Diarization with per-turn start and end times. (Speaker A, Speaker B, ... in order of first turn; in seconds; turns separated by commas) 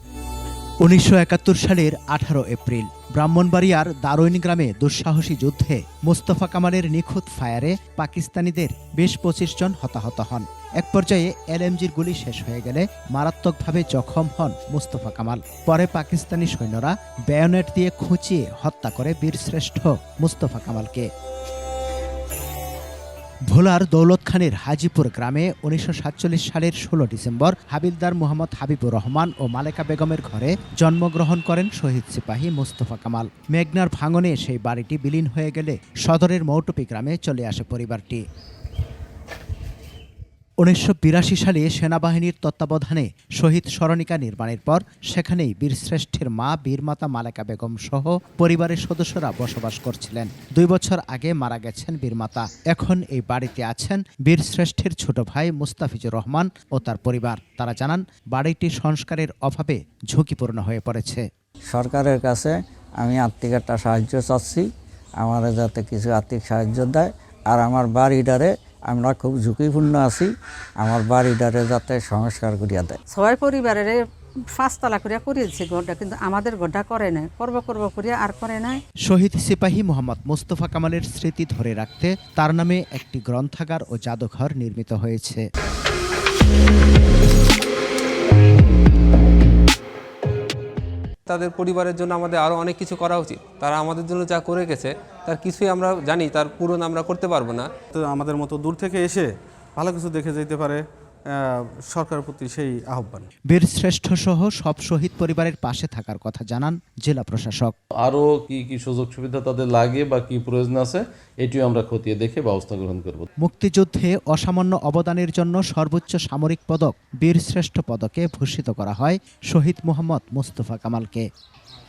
Speaker A: 0.8-21.1, Speaker A: 23.5-38.2, Speaker A: 40.6-61.2, Speaker B: 61.7-64.7, Speaker B: 65.2-73.0, Speaker C: 73.1-74.0, Speaker C: 74.6-78.8, Speaker A: 79.0-85.4, Speaker D: 91.2-97.7, Speaker E: 97.9-100.8, Speaker E: 101.3-103.2, Speaker A: 103.5-107.7, Speaker F: 108.0-113.3, Speaker A: 113.4-121.2